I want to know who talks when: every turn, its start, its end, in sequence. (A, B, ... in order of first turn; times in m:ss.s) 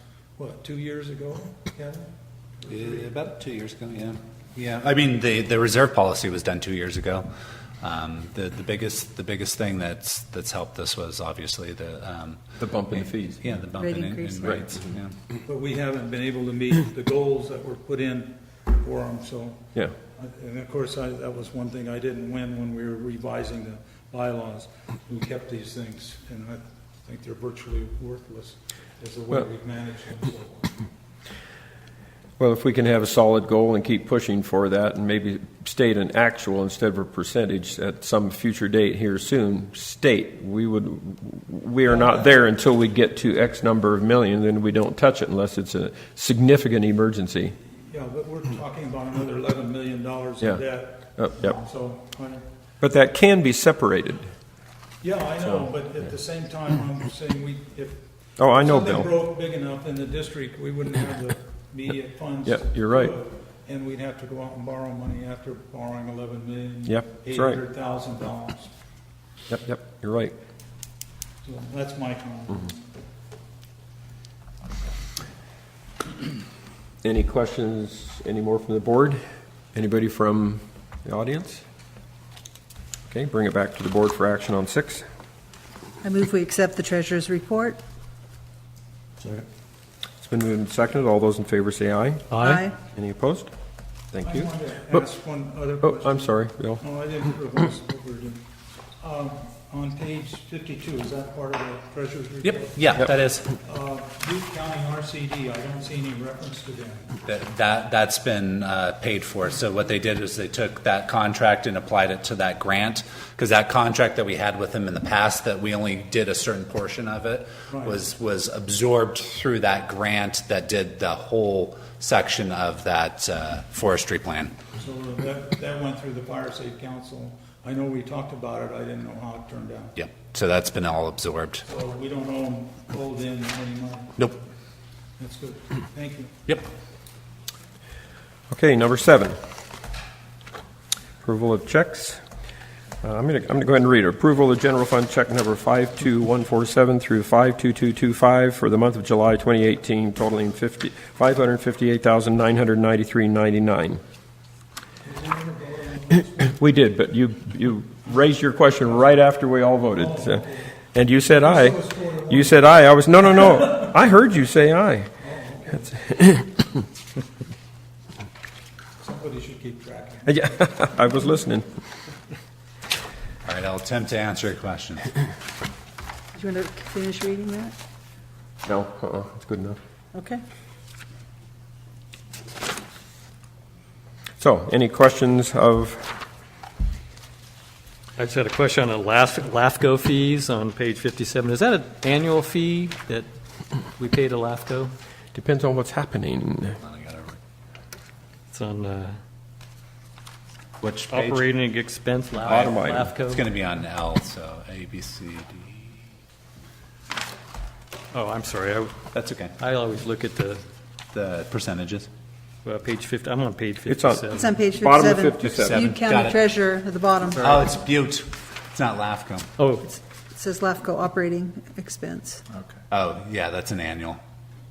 0:00.4-0:03.1 A
0:02.7-0:07.3 B
0:07.8-0:15.2 B
0:12.6-0:13.6 C
0:13.8-0:14.5 D
0:14.4-0:14.7 C
0:15.5-0:30.8 A
0:32.4-0:47.6 C
0:47.7-0:52.5 A
0:51.2-0:51.6 C
0:52.8-0:54.3 C
0:55.0-1:08.7 A
0:58.4-0:59.1 C
1:02.5-1:03.2 C
1:06.9-1:07.6 C
1:09.5-1:10.4 C
1:11.4-1:12.8 A
1:17.0-1:19.2 C
1:19.7-1:21.6 C
1:23.1-1:25.0 C
1:26.0-1:27.8 D
1:30.2-1:33.5 C
1:32.3-1:32.6 E
1:32.4-1:32.8 D
1:34.1-1:34.5 C
1:34.2-1:38.4 A
1:35.8-1:36.8 C
1:39.0-1:47.1 A
1:42.4-1:43.5 B
1:47.2-2:04.6 B
1:57.7-1:58.0 A
2:04.8-2:10.0 A
2:10.0-2:11.6 B
2:11.6-2:14.3 A
2:15.2-2:16.4 A
2:18.5-2:19.4 C
2:21.2-2:22.2 C
2:23.0-2:34.0 C
2:35.0-2:36.5 A
2:36.4-2:45.1 C
2:40.0-2:40.7 A
2:41.4-2:42.6 A
2:45.2-2:46.0 A
2:46.0-2:46.5 C
2:49.0-2:50.7 A
2:50.3-2:51.7 C
2:53.4-2:55.1 B
2:56.4-2:57.8 D
2:58.7-2:59.8 C
3:00.1-3:00.4 D
3:04.4-3:06.2 C
3:08.2-3:13.3 E
3:14.0-3:14.9 E
3:15.3-3:16.8 C
3:16.8-3:17.4 B
3:18.5-3:19.2 E
3:20.8-3:21.5 B
3:21.1-3:23.4 E
3:22.4-3:23.1 C
3:23.2-3:26.0 B
3:28.1-3:29.0 E
3:29.1-3:29.6 B
3:29.6-3:30.6 E
3:31.1-3:32.1 B
3:32.6-3:34.4 E
3:33.9-3:35.8 C
3:34.3-3:37.6 D
3:35.4-3:36.5 B
3:37.3-3:39.5 B
3:39.6-3:40.0 E
3:40.4-3:42.4 D
3:42.9-3:44.2 B